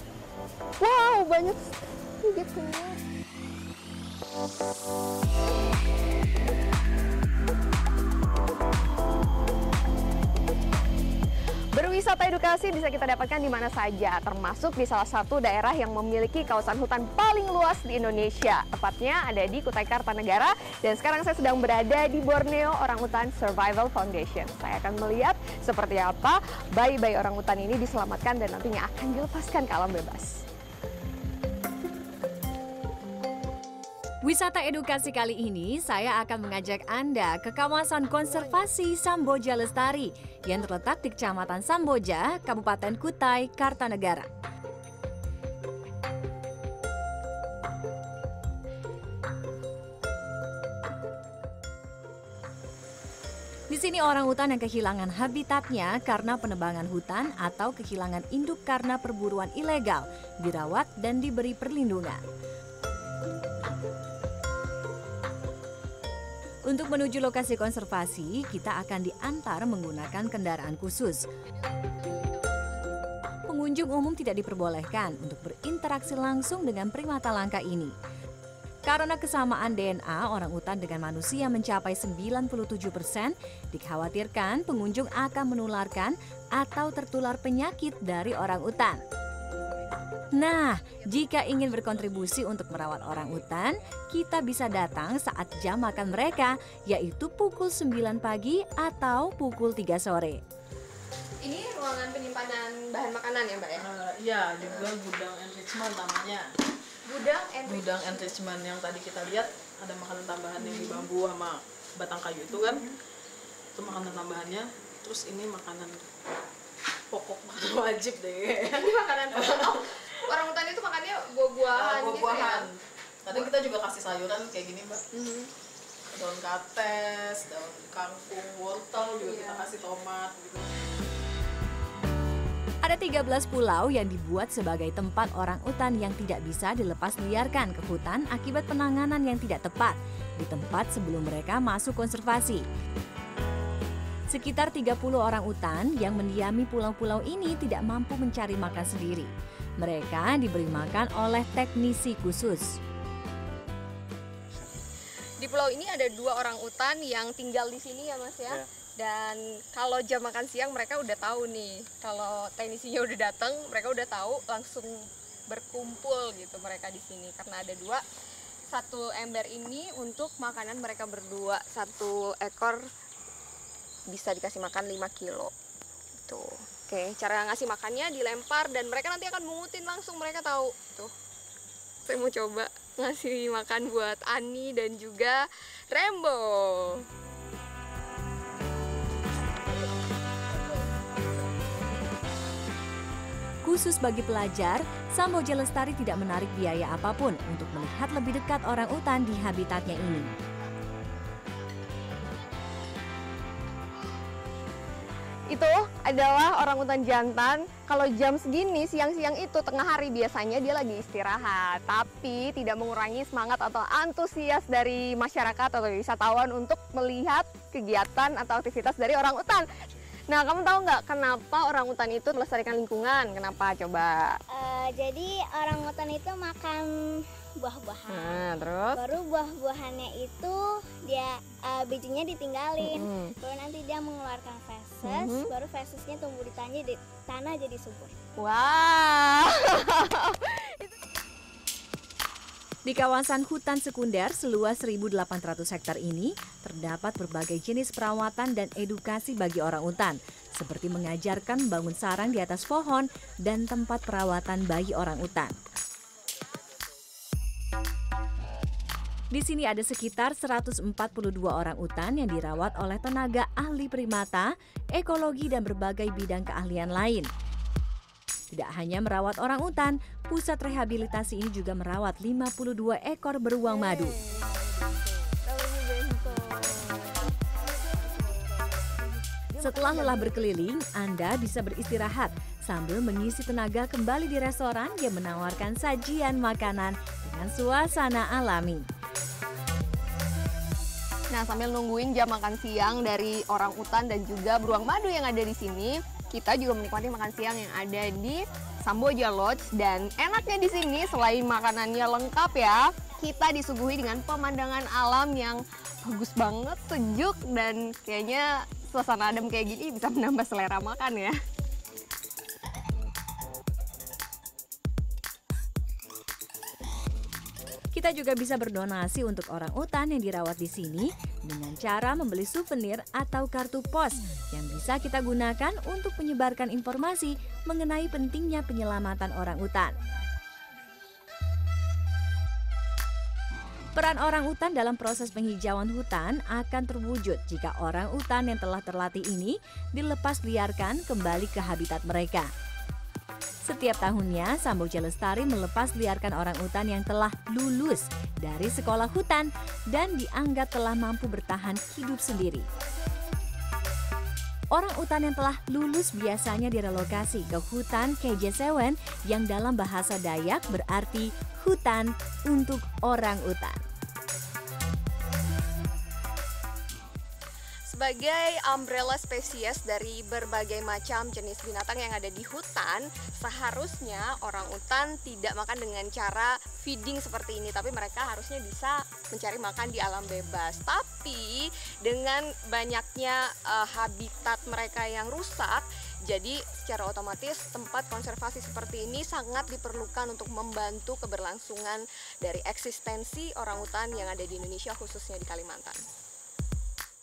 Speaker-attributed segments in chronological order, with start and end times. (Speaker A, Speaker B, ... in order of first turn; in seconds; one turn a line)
Speaker A: 0.8-3.0
Speaker A: 11.8-30.3
Speaker B: 34.2-44.3
Speaker B: 53.7-62.2
Speaker B: 66.7-71.2
Speaker B: 73.5-77.9
Speaker B: 78.9-89.0
Speaker B: 90.3-100.4
Speaker A: 101.4-103.9
Speaker C: 103.8-106.5
Speaker A: 104.6-104.9
Speaker A: 107.1-108.3
Speaker C: 107.7-112.9
Speaker A: 110.6-111.1
Speaker A: 112.5-112.9
Speaker C: 113.8-116.1
Speaker C: 117.1-119.8
Speaker A: 118.7-122.7
Speaker C: 121.7-125.0
Speaker A: 125.1-125.5
Speaker C: 126.1-130.7
Speaker A: 129.1-129.7
Speaker B: 132.8-142.7
Speaker B: 144.3-152.8
Speaker A: 155.4-168.0
Speaker A: 168.7-172.8
Speaker A: 174.1-175.5
Speaker A: 176.2-181.1
Speaker A: 182.1-187.0
Speaker B: 193.6-200.3
Speaker A: 205.5-219.7
Speaker A: 220.3-224.4
Speaker D: 224.5-226.9
Speaker D: 227.6-238.1
Speaker A: 228.1-229.0
Speaker A: 232.8-233.3
Speaker A: 235.0-235.5
Speaker A: 238.4-240.9
Speaker B: 242.9-255.6
Speaker B: 259.3-267.3
Speaker B: 268.5-274.2
Speaker A: 273.7-274.5
Speaker A: 275.4-277.0
Speaker A: 277.9-278.8
Speaker A: 279.6-280.4
Speaker B: 279.6-288.8
Speaker A: 291.3-311.3
Speaker B: 317.9-330.0
Speaker B: 333.9-342.5
Speaker B: 343.6-352.7
Speaker B: 354.7-363.8
Speaker A: 367.9-396.0